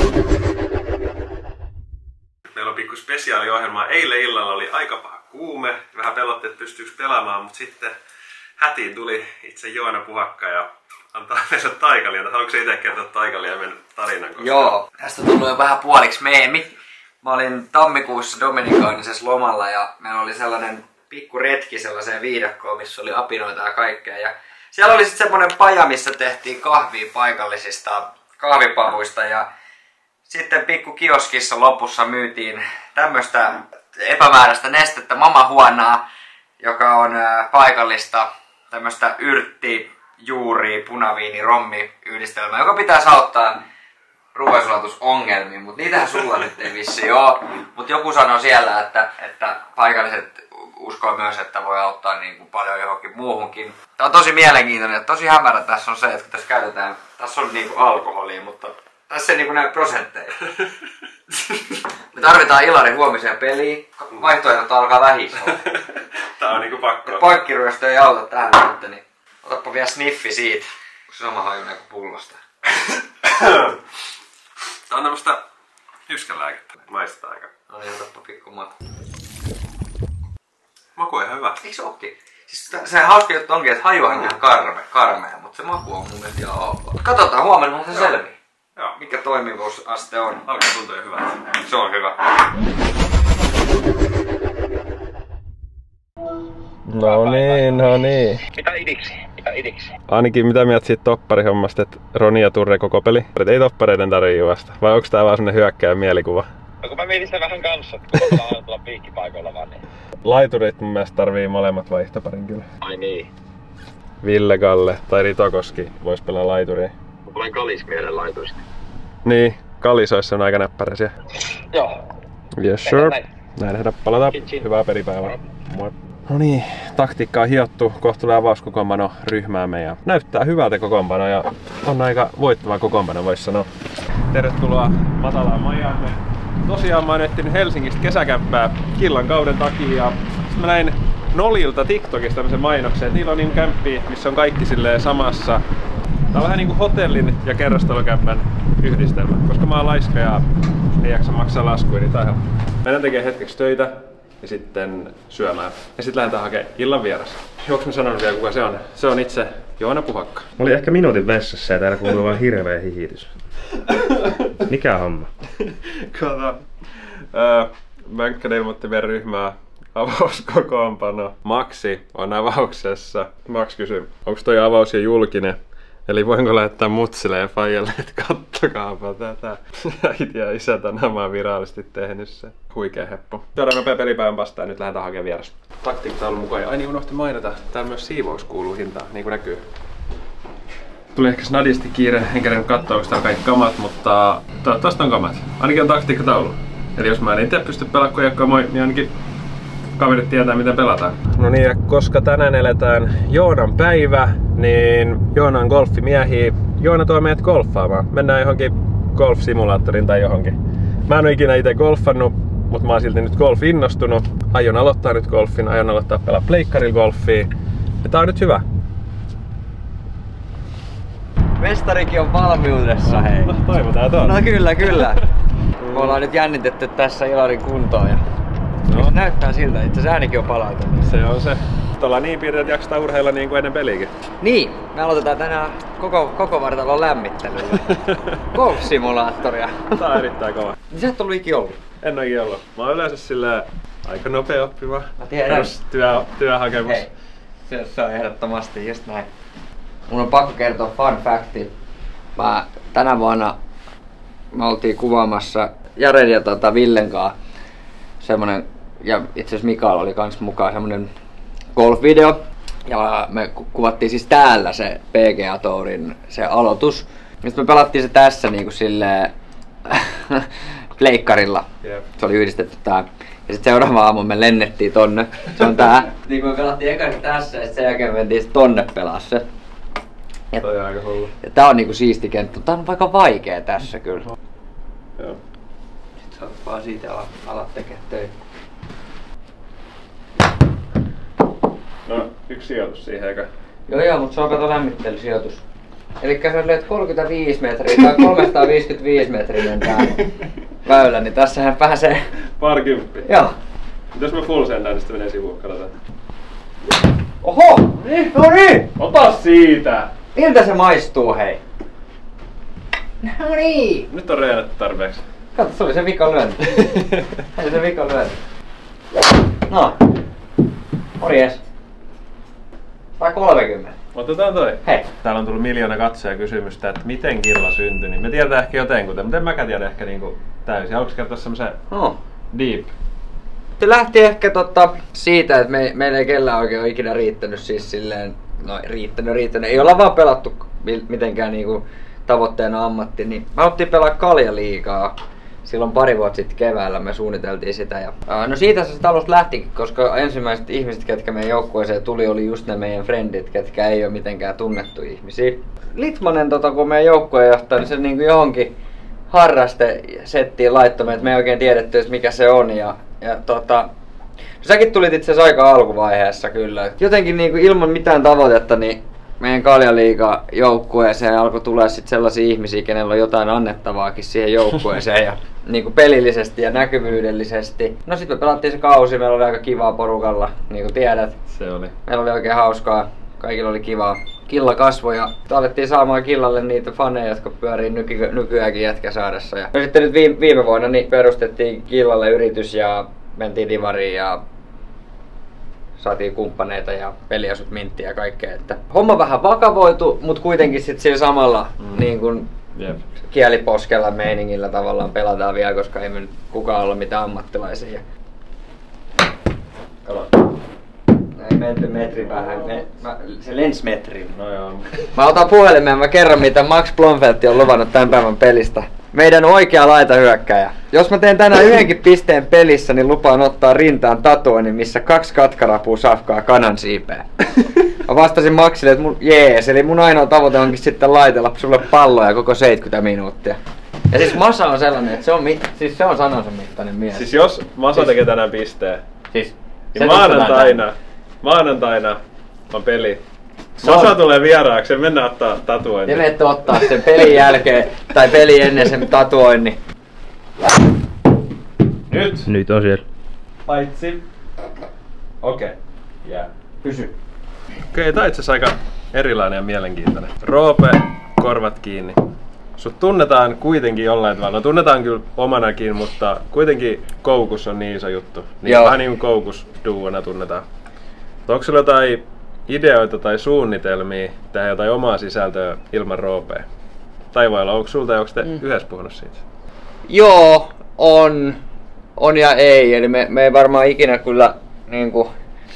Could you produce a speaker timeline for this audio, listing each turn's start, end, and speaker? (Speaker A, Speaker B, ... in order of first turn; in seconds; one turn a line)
Speaker A: 2.5-7.9
Speaker A: 8.6-14.7
Speaker B: 14.4-16.7
Speaker B: 17.2-29.5
Speaker B: 30.3-36.0
Speaker B: 36.6-43.6
Speaker B: 44.3-60.4
Speaker B: 61.5-65.7
Speaker A: 66.4-67.2
Speaker B: 67.0-72.4
Speaker A: 73.2-73.7
Speaker A: 74.9-75.4
Speaker A: 76.1-77.5
Speaker B: 77.7-78.7
Speaker A: 81.0-81.6
Speaker B: 81.6-88.3
Speaker B: 89.0-90.4
Speaker A: 90.4-91.5
Speaker B: 91.6-92.2
Speaker A: 96.9-98.5
Speaker C: 98.6-99.8
Speaker A: 100.1-106.5
Speaker C: 106.8-109.8
Speaker A: 110.2-112.7
Speaker C: 112.8-113.3
Speaker A: 114.2-116.9
Speaker C: 117.3-118.5
Speaker A: 119.2-121.1
Speaker A: 122.6-133.7
Speaker C: 122.9-123.1
Speaker A: 134.3-145.6
Speaker A: 146.3-150.4
Speaker A: 151.0-160.5
Speaker D: 160.6-163.3
Speaker A: 163.9-164.5
Speaker D: 164.6-165.3
Speaker A: 165.6-166.6
Speaker A: 167.3-189.6
Speaker A: 191.1-199.1
Speaker A: 200.0-210.6
Speaker A: 211.1-217.5
Speaker A: 218.0-218.6
Speaker B: 221.6-223.6
Speaker A: 223.0-224.4
Speaker B: 224.2-225.2
Speaker A: 225.8-226.2
Speaker B: 225.9-228.2
Speaker B: 228.9-231.2
Speaker A: 231.1-234.1
Speaker B: 234.4-240.0
Speaker A: 239.9-240.8
Speaker B: 240.9-241.8
Speaker A: 242.0-247.0
Speaker B: 245.2-245.7
Speaker B: 246.8-247.1
Speaker B: 247.7-249.2
Speaker B: 250.1-251.7
Speaker B: 252.3-253.5
Speaker B: 254.5-257.4
Speaker B: 258.2-261.1
Speaker B: 261.7-269.3
Speaker B: 269.8-271.6
Speaker B: 272.2-279.4
Speaker A: 280.6-281.3
Speaker B: 281.4-284.3
Speaker B: 286.3-288.3
Speaker A: 292.1-293.5
Speaker B: 293.9-295.6
Speaker B: 296.2-300.2
Speaker B: 300.8-302.2
Speaker A: 302.6-303.3
Speaker B: 303.2-303.5
Speaker A: 304.1-305.9
Speaker B: 307.4-308.8
Speaker A: 308.9-310.1
Speaker B: 310.3-311.6
Speaker B: 313.2-314.1
Speaker A: 314.1-315.2
Speaker B: 315.5-316.9
Speaker B: 317.5-318.4
Speaker B: 319.7-320.0
Speaker B: 321.2-321.6
Speaker B: 323.2-323.9
Speaker A: 324.1-331.8
Speaker B: 331.9-332.2
Speaker A: 332.5-332.9
Speaker B: 333.8-358.7
Speaker B: 359.3-363.9
Speaker B: 364.6-381.4
Speaker A: 381.5-381.9
Speaker B: 382.1-394.4
Speaker B: 396.0-402.5
Speaker B: 403.3-408.0
Speaker B: 411.3-414.3
Speaker A: 414.3-415.1
Speaker B: 415.1-433.6
Speaker B: 434.1-437.3
Speaker A: 437.1-439.0
Speaker B: 439.3-440.8
Speaker A: 439.9-442.2
Speaker A: 442.7-443.2
Speaker A: 443.8-446.2
Speaker B: 443.8-444.1
Speaker B: 446.1-449.8
Speaker A: 452.1-452.4
Speaker D: 452.4-453.0
Speaker A: 453.7-454.2
Speaker A: 455.4-456.5
Speaker B: 456.8-457.1
Speaker A: 457.9-462.2
Speaker A: 462.8-470.6
Speaker B: 468.6-469.0
Speaker A: 471.5-476.6
Speaker A: 477.3-479.4
Speaker B: 480.1-481.6
Speaker B: 482.2-485.3